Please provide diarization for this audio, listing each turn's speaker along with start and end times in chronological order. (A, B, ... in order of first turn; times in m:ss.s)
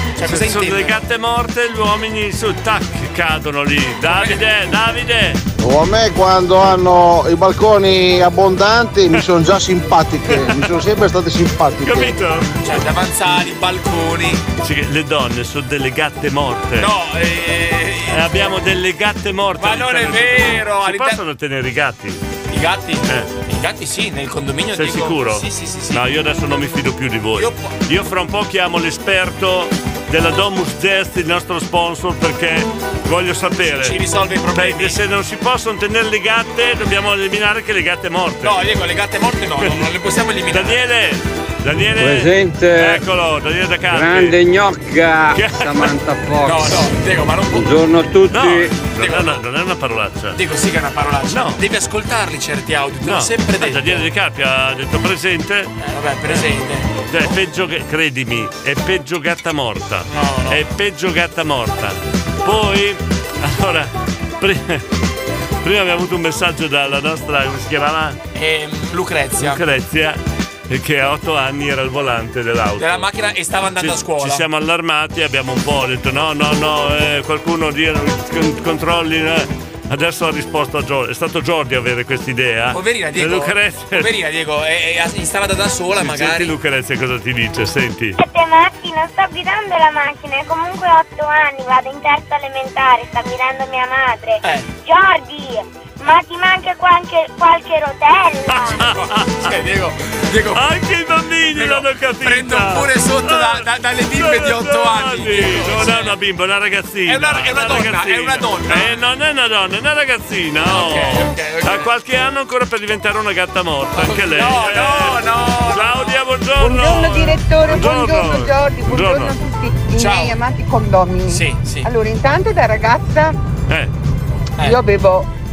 0:00.2-0:01.0 A
0:00.2-0:05.4 B
0:04.1-0:04.4 A
0:05.6-0:12.1 C
0:10.3-0:10.7 B
0:11.8-0:12.5 B
0:12.6-0:14.5 A
0:14.6-0:16.9 B
0:16.8-0:18.2 A
0:18.1-0:22.2 B
0:19.6-0:21.2 A
0:22.5-0:26.0 A
0:24.7-0:34.0 B
0:27.4-0:27.8 A
0:33.6-0:35.0 A
0:34.5-0:38.5 B
0:38.4-0:40.8 A
0:40.5-0:44.4 B
0:42.0-0:42.9 D
0:43.9-0:46.7 D
0:45.3-0:46.0 B
0:46.4-0:47.8 A
0:47.6-0:48.5 D
0:48.3-0:50.4 B
0:48.8-0:49.4 A
0:50.3-0:54.0 A
0:51.3-0:51.6 B
0:53.0-0:55.7 B
0:55.8-0:57.3 A
0:57.1-1:04.8 B
1:00.1-1:00.7 A
1:05.6-1:08.2 B
1:08.3-1:09.6 A
1:09.4-1:13.0 B
1:12.8-1:14.4 A
1:13.8-1:24.1 B
1:22.7-1:26.5 A
1:26.0-1:28.2 B
1:28.2-1:38.6 E
1:34.4-1:34.7 A
1:38.5-1:39.5 B
1:38.7-1:40.6 A
1:40.5-1:43.6 B
1:41.5-1:46.1 A
1:44.1-1:59.4 B
1:47.1-1:49.0 A
1:50.6-1:51.9 A
1:53.9-1:56.2 A
1:56.6-2:03.4 F
2:00.0-2:00.4 A
2:01.3-2:01.9 A
2:04.6-2:05.3 F